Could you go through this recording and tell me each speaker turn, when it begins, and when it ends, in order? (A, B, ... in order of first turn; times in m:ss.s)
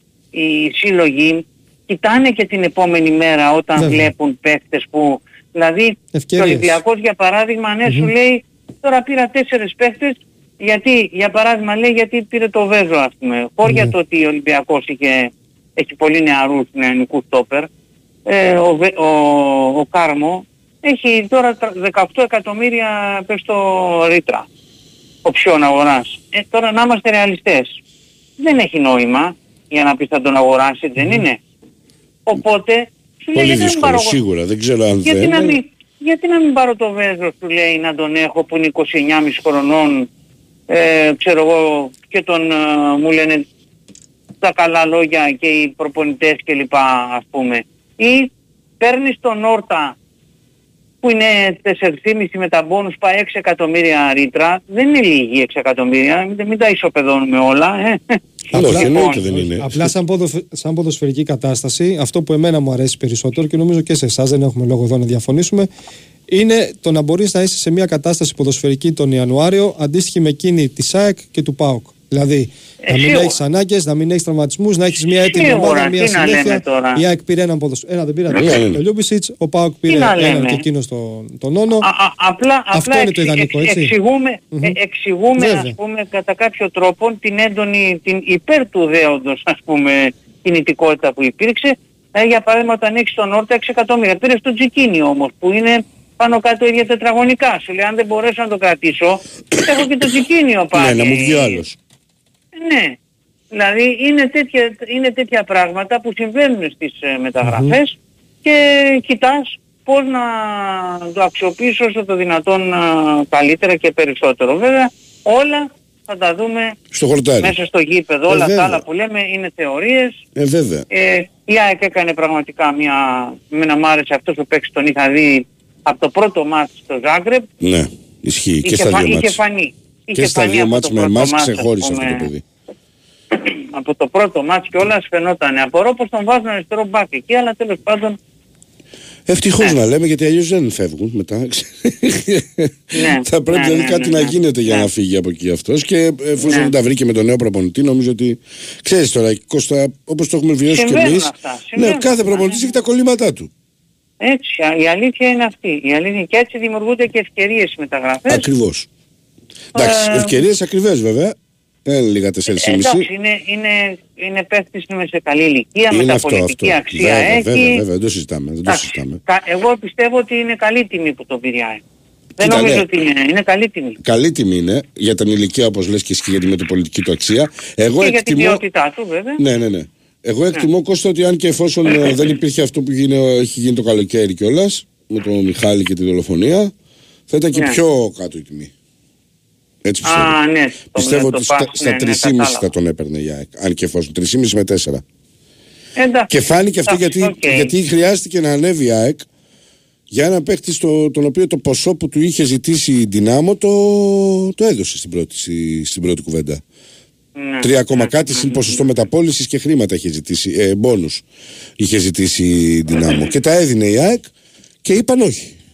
0:00.3-0:17.7 A
0:03.8-0:04.1 B
0:06.1-0:06.8 B
0:13.6-0:13.9 B
0:18.2-0:24.5 A
0:25.2-0:27.8 A
0:28.4-0:31.4 A
0:32.3-0:34.2 A
0:33.3-0:35.6 C
0:35.0-0:40.1 A
0:40.7-0:43.4 A
0:44.4-0:50.0 A
0:51.0-0:59.2 A
0:58.5-0:59.9 C
0:58.5-1:05.7 B
1:06.3-1:21.9 B
1:12.8-1:13.4 A
1:15.2-1:17.0 A
1:18.3-1:18.8 C
1:19.9-1:20.6 A
1:21.8-1:41.6 A
1:22.7-1:23.9 B
1:25.4-1:25.7 B
1:40.7-1:41.8 C
1:42.5-1:43.0 A
1:43.5-1:56.8 A
1:47.4-1:47.7 B
1:56.9-1:57.5 C
1:57.4-2:00.2 A
1:58.3-1:58.8 C
2:00.3-2:00.8 C
2:00.9-2:07.5 A
2:07.6-2:09.4 C
2:08.6-2:12.3 A
2:10.1-2:12.4 C
2:13.3-2:18.2 A
2:19.2-2:33.5 C
2:22.9-2:24.9 A
2:26.4-2:26.7 A
2:30.7-2:32.7 A
2:34.2-2:38.5 A
2:38.3-2:38.9 C
2:39.7-2:43.1 C
2:39.7-2:40.3 A
2:42.5-2:47.8 A
2:45.9-2:49.2 C
2:48.7-2:51.8 A
2:52.4-2:52.9 C
2:52.4-2:54.0 A
2:54.0-2:58.6 C
2:58.0-2:59.4 A
2:59.4-3:06.7 C
3:07.3-3:08.7 C
3:09.8-3:10.4 C
3:10.0-3:12.7 A
3:10.9-3:15.0 C
3:16.0-3:16.3 A
3:16.3-3:19.2 C
3:16.9-3:17.7 A
3:20.1-3:26.6 C
3:27.4-3:28.8 A
3:27.6-3:31.2 C
3:31.8-3:34.3 C
3:34.8-3:35.6 C